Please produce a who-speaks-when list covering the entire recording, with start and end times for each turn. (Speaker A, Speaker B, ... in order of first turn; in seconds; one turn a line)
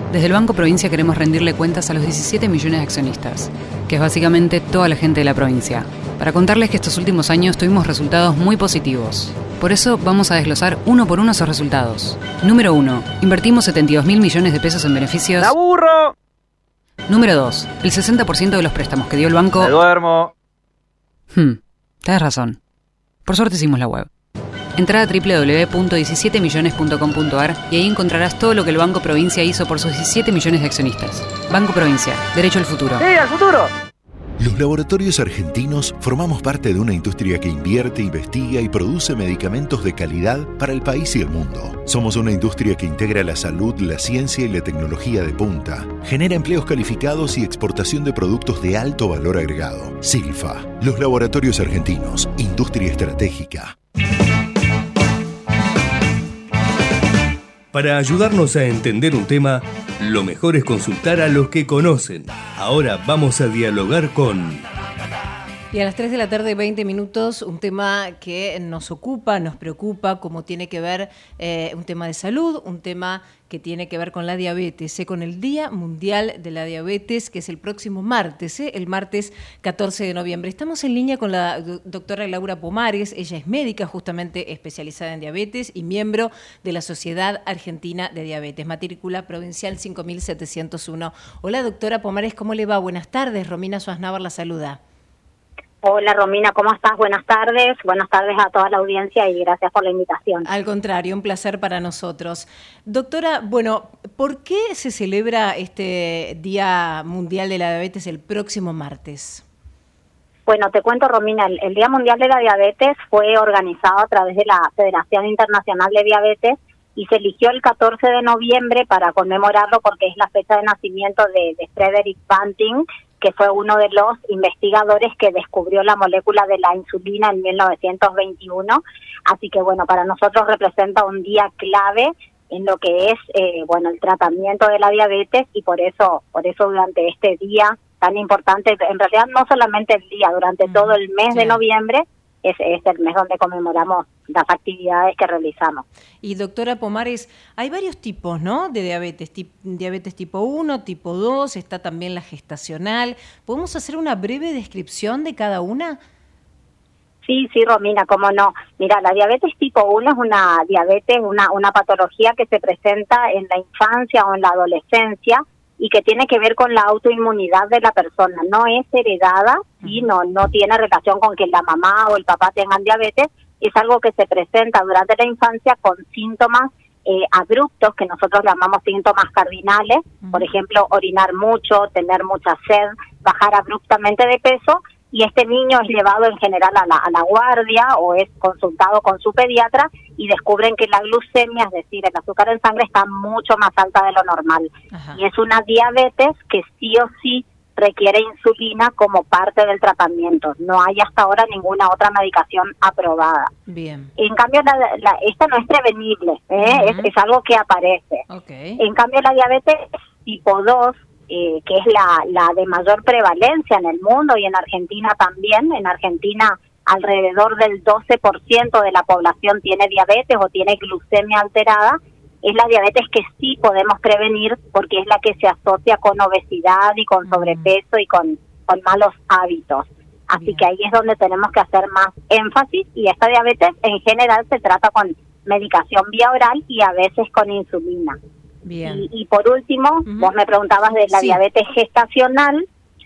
Speaker A: 0.1-15.5
Speaker B: 15.4-16.1
Speaker A: 17.1-19.7
Speaker B: 19.6-20.3
Speaker A: 21.3-22.6
Speaker A: 23.2-24.1
Speaker A: 24.8-33.0
Speaker B: 33.0-33.7
Speaker C: 34.4-53.7
Speaker D: 57.7-64.7
Speaker E: 65.7-94.8
Speaker F: 95.8-100.5
Speaker E: 100.4-109.4
Speaker F: 110.5-145.8
Speaker E: 140.6-141.6
Speaker E: 146.2-156.0
Speaker F: 157.2-203.5
Speaker E: 169.8-170.1
Speaker E: 180.2-180.5
Speaker E: 194.9-195.2
Speaker E: 203.7-204.1
Speaker F: 204.2-208.2
Speaker E: 206.6-207.1
Speaker E: 208.3-208.8
Speaker F: 208.8-238.2
Speaker E: 227.2-227.7
Speaker E: 230.4-230.7
Speaker E: 238.6-239.0
Speaker F: 238.9-242.6
Speaker E: 240.1-240.3
Speaker E: 241.1-241.4